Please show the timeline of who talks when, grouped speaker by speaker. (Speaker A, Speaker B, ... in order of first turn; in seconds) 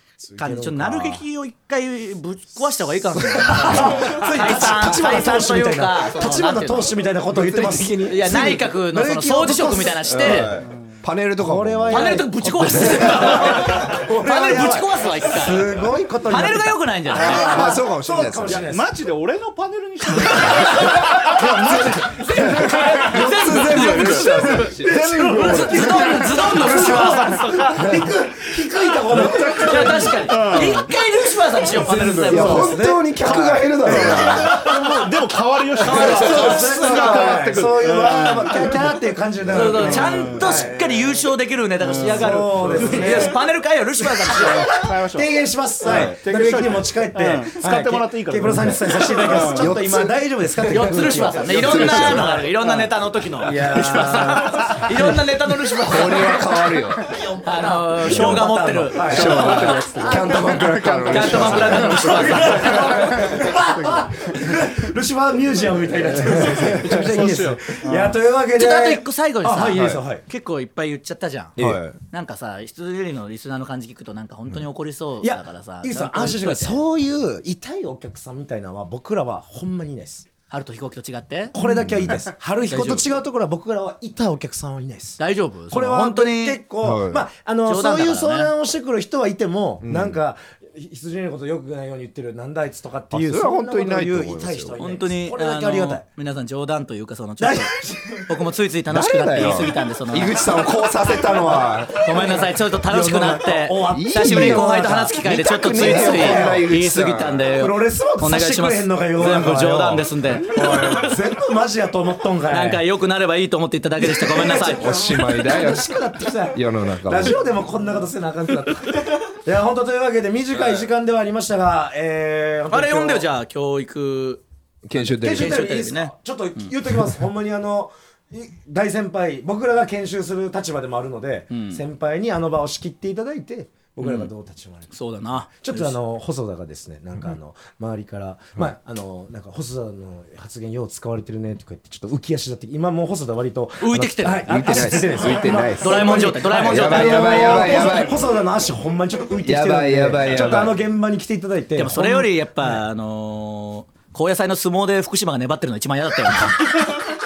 Speaker A: 0.3-1.2, 3.1-10.6, 11.4-18.9, 20.3-22.2, 24.6-30.8, 31.7-35.2, 35.8-41.1, 41.8-43.4, 44.2-52.5, 53.4-55.3, 57.0-70.2, 75.2-80.3, 81.5-96.0, 97.4-98.3, 102.1-106.7, 107.5-112.8, 114.0-123.2, 125.2-134.9, 135.6-152.8
Speaker B: 0.4-10.5, 11.9-15.7, 16.2-17.7, 20.4-21.0, 22.2-27.8, 29.2-33.4, 35.8-37.8, 39.5-44.8, 50.6-56.6, 57.4-63.0, 68.5-76.8, 80.5-81.6, 82.7-83.1, 85.2-86.6, 87.7-88.5, 94.8-100.4, 102.0-111.1, 112.5-114.9, 122.7-124.4, 125.0-126.7, 131.5-131.8, 134.0-134.3, 134.9-136.0, 143.8-148.1, 150.3-150.7, 151.8-157.1
Speaker C: 10.1-13.3, 17.2-18.7, 21.9-26.4, 27.8-28.1, 29.1-30.2, 31.9-34.6, 39.4-39.8, 42.6-43.0, 45.8-46.2, 49.4-50.1, 51.4-52.4, 55.8-57.1, 58.1-58.5, 59.0-63.6, 66.3-67.0, 69.8-70.0, 71.6-72.0, 81.6-82.2, 86.8-87.2, 89.8-90.2, 93.1-94.8, 98.9-102.4, 103.9-107.6, 110.5-111.2, 114.5-117.4, 120.5-120.9, 124.9-125.7, 144.5-148.2, 149.4-150.8
Speaker D: 18.5-24.2, 26.7-28.0, 29.1-29.6, 30.3-30.9, 33.8-38.9, 39.6-40.8, 41.8-43.4, 44.4-50.0, 52.1-52.9, 66.2-68.2